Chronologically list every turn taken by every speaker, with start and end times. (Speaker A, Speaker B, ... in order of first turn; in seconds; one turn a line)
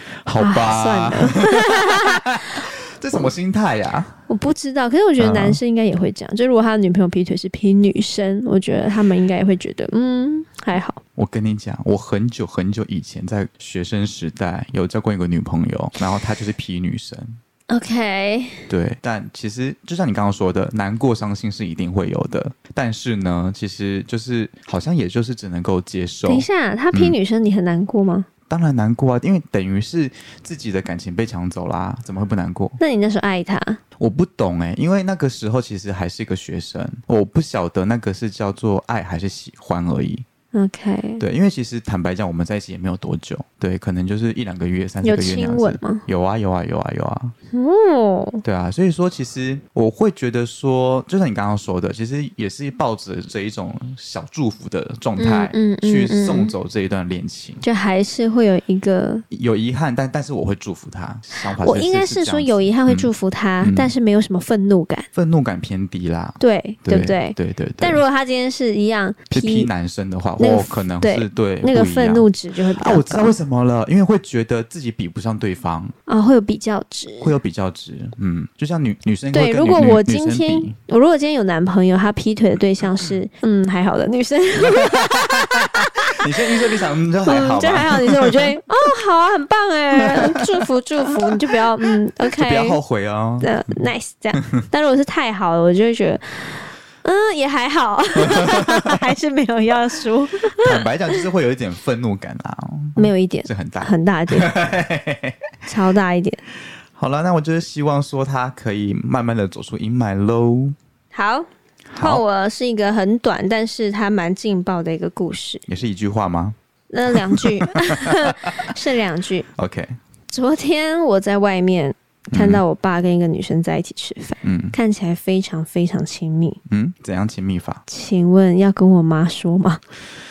Speaker A: 0.2-4.2
Speaker B: 0.4-2.6
Speaker B: 4.3-11.0
Speaker A: 5.2-5.6
Speaker A: 11.2-17.4
Speaker B: 17.7-18.7
Speaker A: 18.7-27.2
Speaker B: 26.3-28.3
Speaker A: 28.5-32.8
Speaker B: 32.8-33.8
Speaker A: 34.0-40.2
Speaker B: 40.5-41.2
Speaker A: 41.2-47.3
Speaker B: 45.0-46.0
Speaker B: 47.5-48.4
Speaker A: 48.4-57.6
Speaker B: 55.2-56.5
Speaker B: 57.6-59.2
Speaker A: 59.3-63.1
Speaker B: 61.5-65.1
Speaker A: 63.6-63.9
Speaker A: 65.1-68.0
Speaker B: 66.4-69.7
Speaker A: 69.3-75.9
Speaker B: 70.4-73.3
Speaker B: 76.1-77.3
Speaker A: 77.2-80.8
Speaker B: 79.3-86.5
Speaker A: 84.6-88.6
Speaker B: 87.2-92.8
Speaker A: 90.0-93.8
Speaker B: 93.4-100.8
Speaker A: 94.3-94.7
Speaker A: 98.2-99.0
Speaker A: 100.5-105.4
Speaker B: 103.0-104.5
Speaker B: 105.7-106.4
Speaker A: 107.0-110.8
Speaker B: 111.1-111.5
Speaker A: 111.9-112.2
Speaker B: 112.0-115.7
Speaker A: 115.7-116.6
Speaker B: 116.9-119.5
Speaker A: 117.1-118.7
Speaker A: 119.6-120.0
Speaker B: 120.3-126.6
Speaker A: 122.3-122.6
Speaker A: 124.4-124.8
Speaker A: 126.7-127.8
Speaker B: 127.9-129.8